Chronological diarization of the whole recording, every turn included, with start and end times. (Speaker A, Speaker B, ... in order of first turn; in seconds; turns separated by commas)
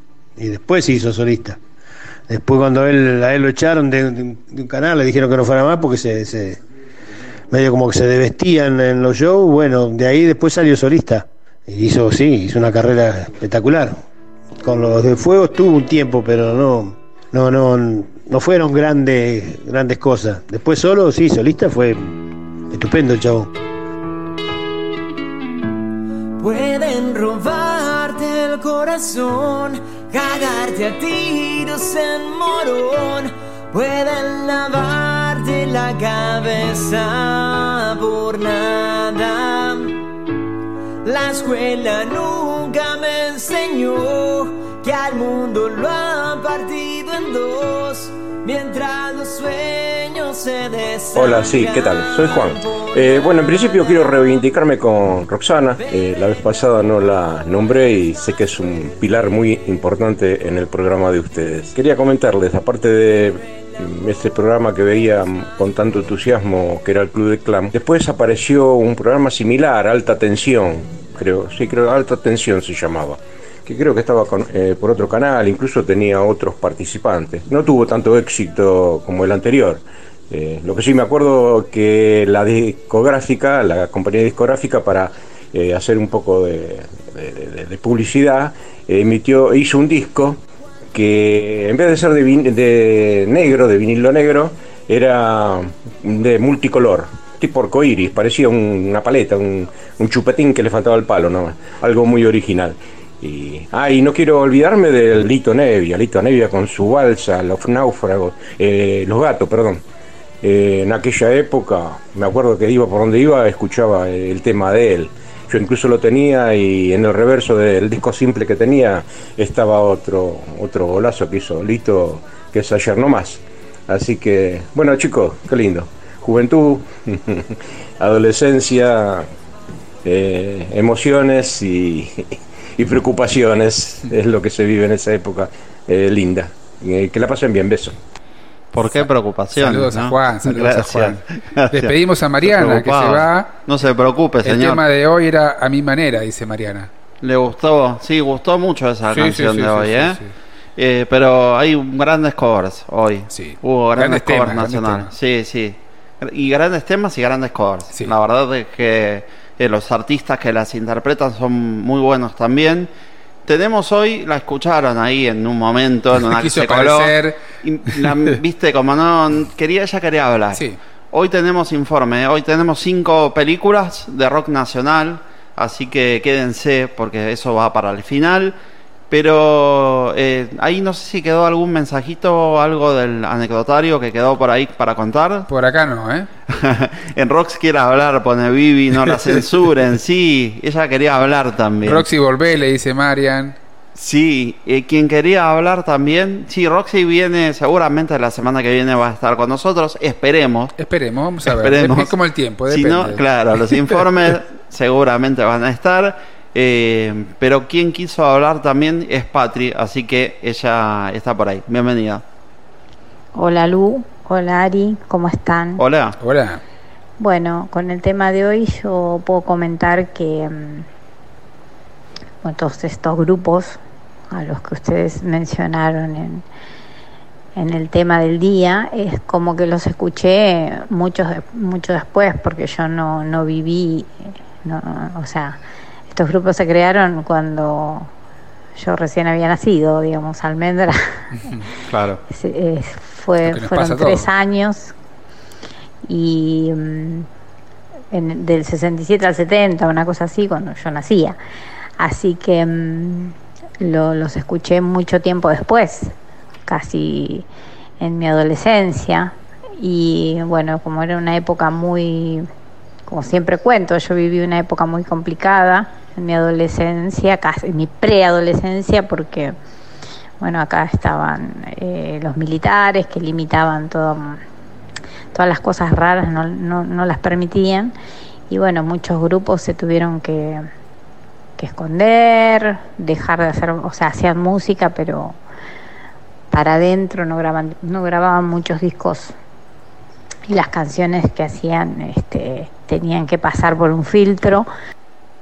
Speaker A: 0.4-1.6, Speaker A: 2.3-6.6, Speaker A: 7.5-14.0, Speaker A: 14.6-22.2, Speaker A: 22.7-23.5, Speaker B: 26.4-40.0, Speaker B: 41.0-54.0, Speaker C: 51.1-90.4, Speaker C: 90.9-109.8, Speaker C: 110.4-127.5, Speaker C: 128.0-129.3, Speaker C: 130.0-137.9, Speaker D: 138.7-141.9, Speaker E: 138.8-141.2, Speaker E: 141.7-143.5, Speaker D: 142.4-144.8, Speaker E: 144.4-146.9, Speaker D: 147.2-150.2, Speaker E: 149.1-150.3, Speaker D: 150.8-162.9, Speaker E: 153.3-155.1, Speaker D: 163.4-178.5, Speaker E: 166.2-167.4, Speaker E: 167.9-168.3, Speaker E: 170.5-170.8, Speaker D: 179.1-185.5, Speaker E: 185.5-186.3, Speaker D: 186.5-192.1, Speaker E: 191.8-193.6, Speaker D: 193.9-200.7, Speaker E: 200.8-203.2, Speaker D: 201.5-202.1, Speaker D: 202.7-212.2, Speaker F: 213.3-215.8, Speaker D: 215.8-216.2, Speaker E: 216.2-216.6, Speaker F: 217.2-220.8, Speaker F: 222.4-223.8, Speaker F: 224.3-226.4, Speaker F: 227.6-234.1, Speaker F: 234.6-235.6, Speaker F: 236.1-238.1, Speaker F: 238.8-241.2, Speaker E: 241.4-241.7, Speaker D: 241.9-242.2, Speaker F: 242.3-244.9, Speaker E: 243.5-244.2, Speaker F: 246.1-247.3, Speaker F: 248.1-251.4, Speaker F: 252.0-256.1, Speaker F: 256.7-257.4, Speaker F: 258.0-262.5, Speaker F: 263.1-269.6, Speaker F: 270.4-274.4, Speaker F: 275.3-277.9, Speaker F: 278.5-280.7, Speaker F: 281.6-285.4, Speaker F: 286.5-289.3, Speaker F: 290.5-294.7